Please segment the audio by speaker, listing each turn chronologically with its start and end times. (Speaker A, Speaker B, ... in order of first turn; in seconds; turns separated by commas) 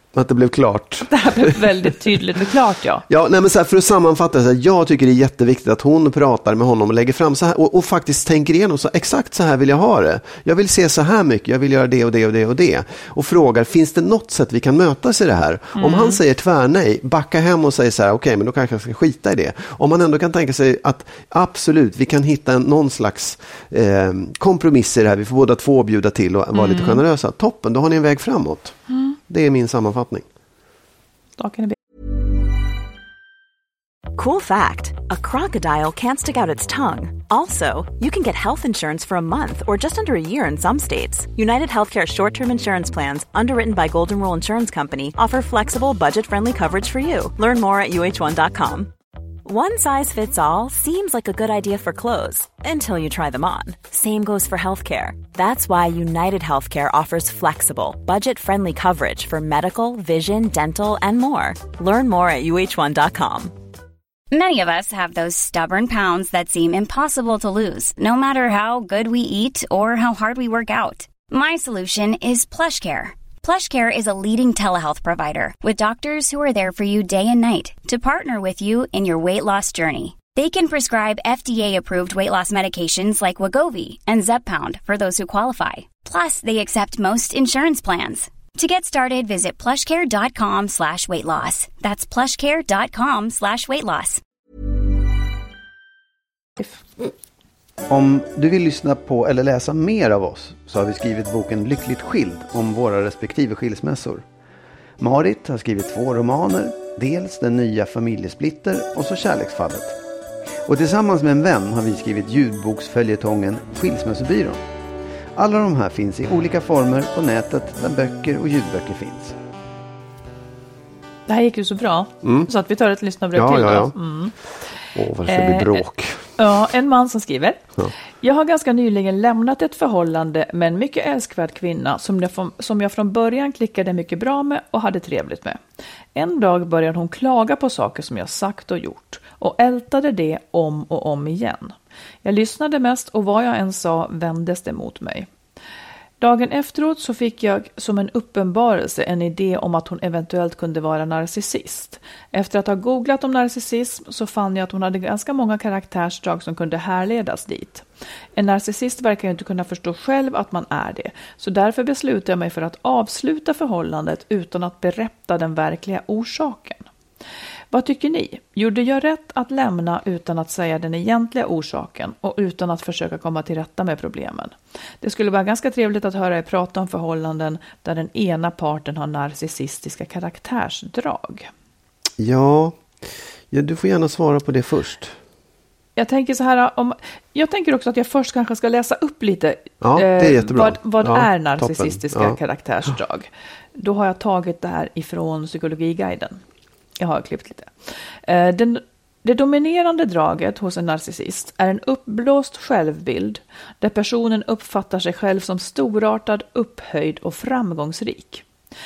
Speaker A: 0.1-2.2, Speaker B: 1.1-3.0, Speaker A: 3.1-30.2, Speaker B: 15.8-16.2, Speaker B: 26.6-27.0, Speaker B: 28.9-29.2, Speaker B: 31.4-31.8, Speaker C: 34.1-48.9, Speaker C: 49.5-63.5, Speaker D: 64.3-94.2, Speaker E: 97.9-104.2, Speaker E: 105.0-110.0, Speaker E: 110.7-114.6, Speaker E: 115.4-119.4, Speaker B: 121.3-124.3, Speaker A: 122.2-122.5, Speaker A: 123.3-124.0, Speaker A: 124.9-126.3, Speaker B: 125.3-125.8, Speaker B: 126.4-127.6, Speaker B: 128.2-135.6, Speaker B: 136.2-145.3, Speaker B: 146.2-157.8, Speaker B: 158.4-166.9, Speaker B: 167.7-181.5, Speaker A: 182.2-182.8, Speaker A: 183.5-185.2, Speaker B: 186.0-196.4, Speaker A: 189.8-192.4, Speaker B: 197.0-208.4